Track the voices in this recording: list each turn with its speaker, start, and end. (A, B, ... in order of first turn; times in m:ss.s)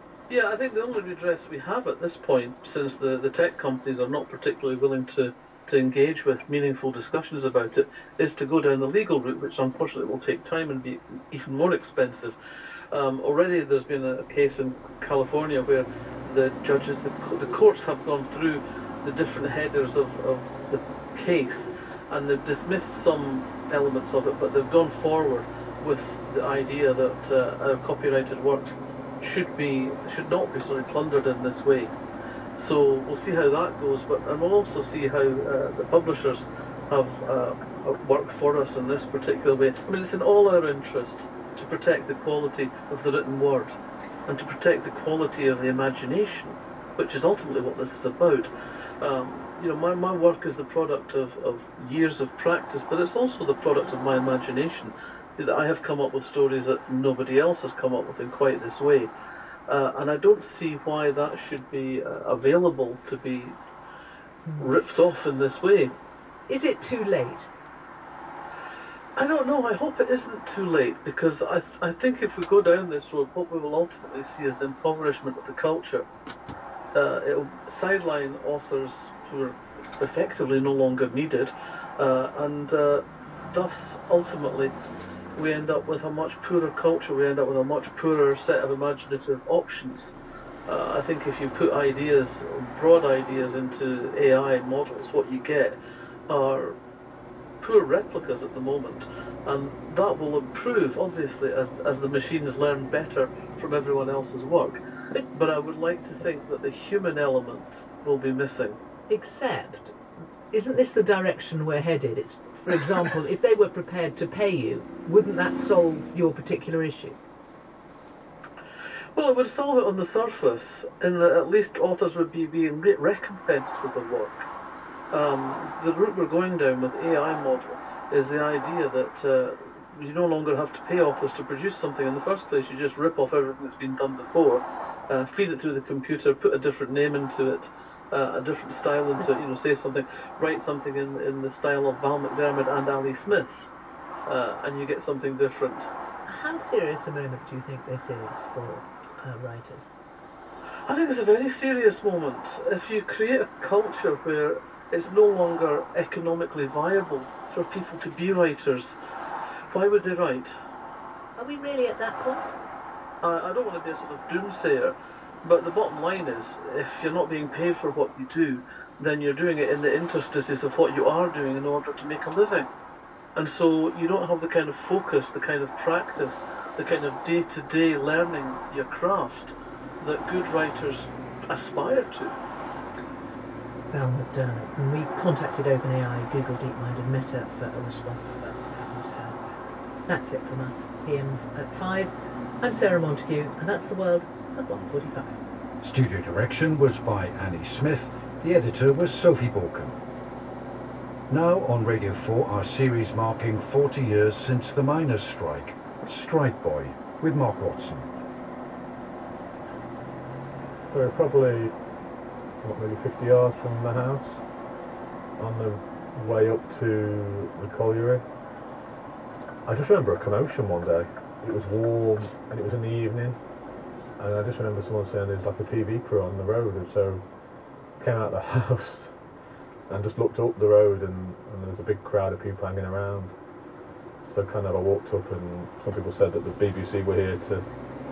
0:00.3-0:12.4 A
0:12.9-0:31.9 A
0:32.6-0:43.8 A
0:44.3-0:59.1 A
0:59.7-1:03.6 A
1:04.4-1:04.8 B
1:04.6-1:05.9 A
1:06.5-1:07.5 B
1:09.2-1:16.0 A
1:16.9-1:24.7 A
1:25.3-1:30.1 A
1:30.7-1:36.8 A
1:37.6-1:48.8 A
1:49.1-1:50.0 B
1:50.5-1:57.2 B
1:59.1-2:04.5 A
2:05.1-2:23.7 A
2:24.2-2:25.9 A
2:26.2-2:29.9 B
2:30.8-2:39.0 A
2:39.7-2:40.5 A
2:41.4-2:42.5 B
2:43.2-2:52.7 A
2:53.3-3:02.4 A
3:03.9-3:09.5 B
3:10.1-3:15.4 B
3:15.8-3:20.0 C
3:21.3-3:28.1 C
3:30.8-3:31.8 D
3:32.6-3:34.4 D
3:35.4-3:38.2 D
3:39.6-3:43.4 D
3:44.2-3:47.3 D
3:47.9-3:49.2 D
3:49.9-3:53.3 D
3:54.2-3:57.6 D